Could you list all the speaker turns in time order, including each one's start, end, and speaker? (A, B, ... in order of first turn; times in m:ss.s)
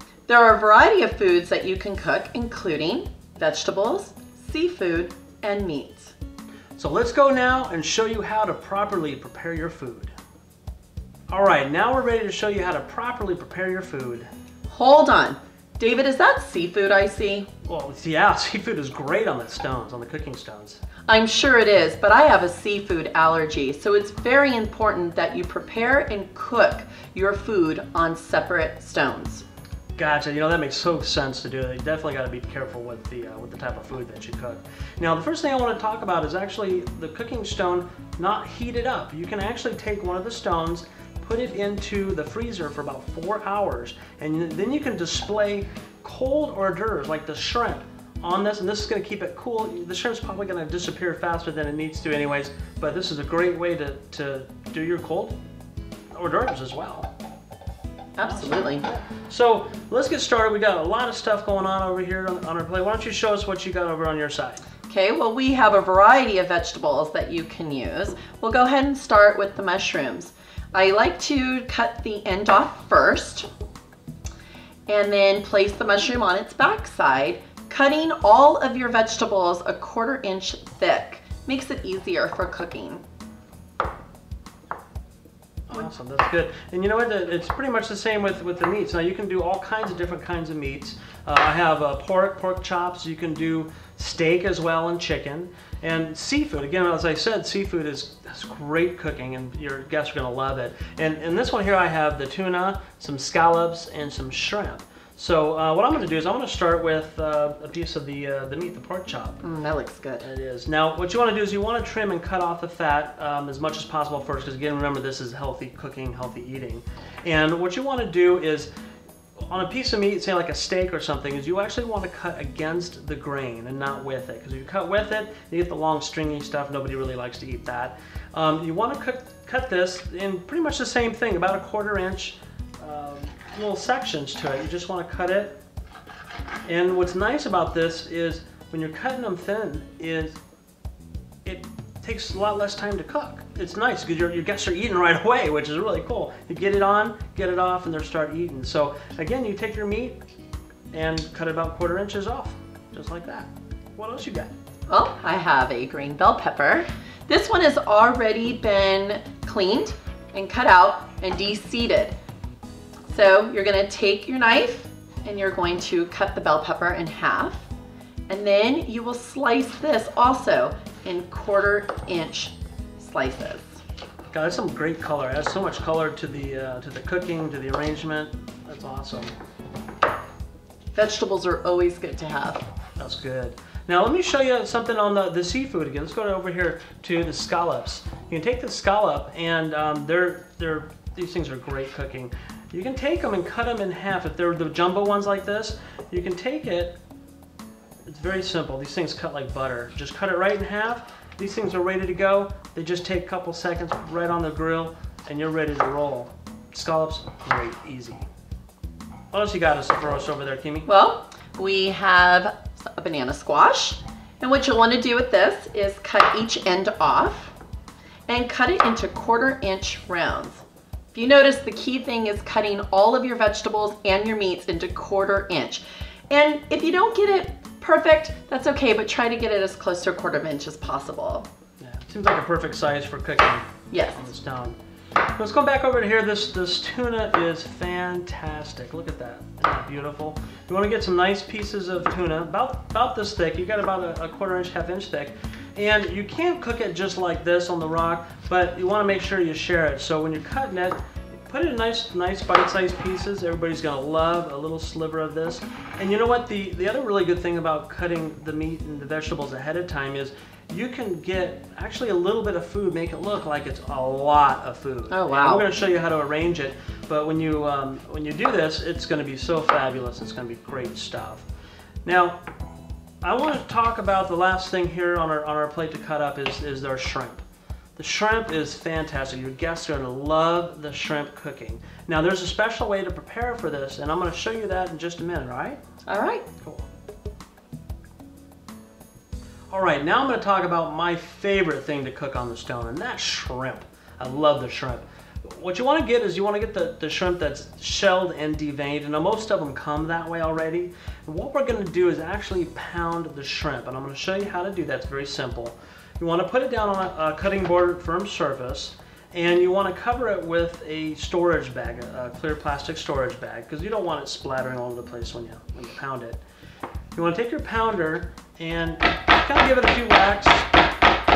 0:00.3-0:06.1 A
0:06.8-0:10.1 B
0:11.3-0:14.3 B
0:14.7-0:17.5 A
0:17.6-0:20.8 B
0:21.1-0:29.4 A
0:30.0-0:55.4 B
0:56.1-0:57.1 B
0:58.2-0:58.8 A
0:58.2-1:04.6 B
1:04.9-1:13.5 A
1:14.9-1:23.0 A
1:25.7-1:49.4 B
1:49.4-1:50.2 A
1:50.2-1:58.7 B
1:59.5-2:15.6 B
2:16.7-2:20.4 B
2:21.4-2:30.2 B
2:30.9-2:34.5 B
2:34.9-2:42.2 A
2:43.1-2:47.7 A
2:48.3-2:53.8 A
2:54.3-2:59.3 B
3:00.9-3:02.7 A
3:03.0-3:17.0 B
3:18.1-3:28.2 B
3:29.3-3:30.9 B
3:30.9-3:37.5 A
3:38.3-3:51.5 A
3:51.8-3:54.8 B
3:53.9-3:54.2 A
3:55.4-4:31.4 B
4:25.1-4:25.7 A
4:32.0-4:32.4 B
4:33.2-4:37.4 B
4:38.0-4:45.8 B
4:46.1-4:46.5 A
4:49.7-5:16.4 B
5:17.1-5:20.7 B